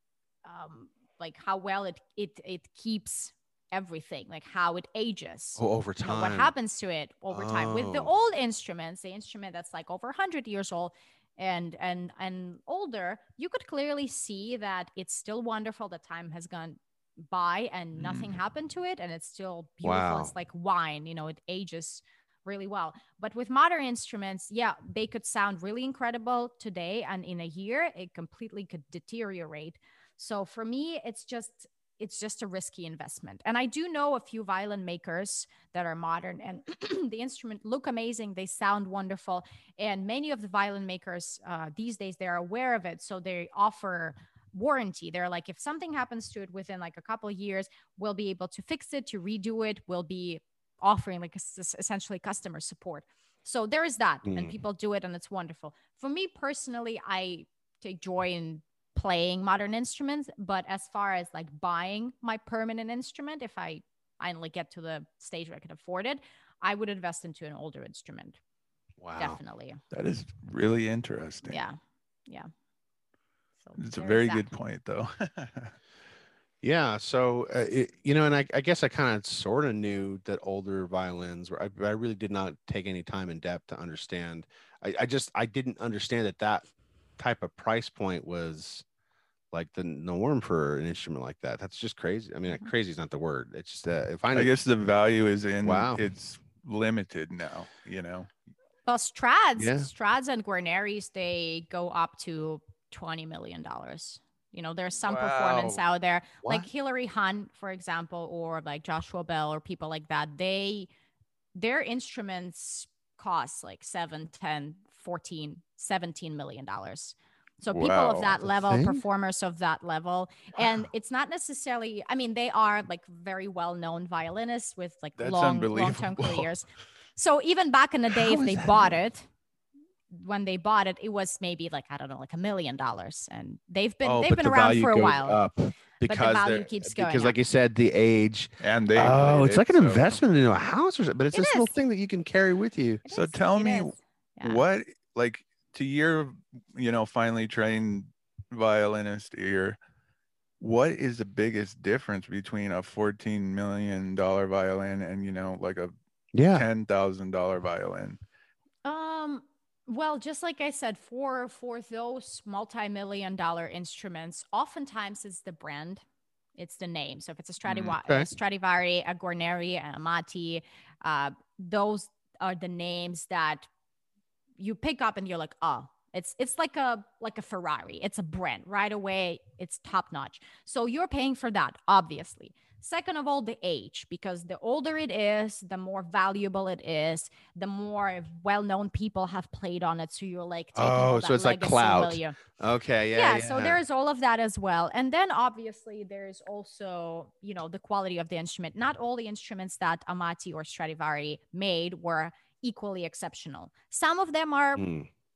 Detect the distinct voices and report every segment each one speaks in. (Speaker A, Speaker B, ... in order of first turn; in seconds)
Speaker A: 0.4-68.4, 69.2-69.8, 71.5-72.5, 73.6-74.5, 98.9-110.9, 111.5-129.3, 130.1-135.4, 136.0-137.4, 141.3-141.7, 143.1-144.6, 158.8-166.0, 166.6-173.7, 174.6-192.4, 193.1-204.8
Speaker B: 5.6-6.5, 7.3-8.1, 19.8-20.3, 54.2-54.6, 69.0-69.4, 76.6-88.8, 89.5-94.5, 95.6-96.0, 99.6-99.9, 106.4-106.7, 118.4-119.0, 128.1-129.0, 134.2-143.0, 156.3-156.7, 167.7-168.3, 190.8-193.8, 204.8-205.1
Speaker C: 18.0-18.3, 69.9-71.6, 73.8-75.7, 94.3-98.3, 105.0-105.8, 117.7-118.3, 125.2-126.5, 134.0-134.5, 138.6-140.1, 143.1-149.8, 150.6-155.9, 156.5-158.2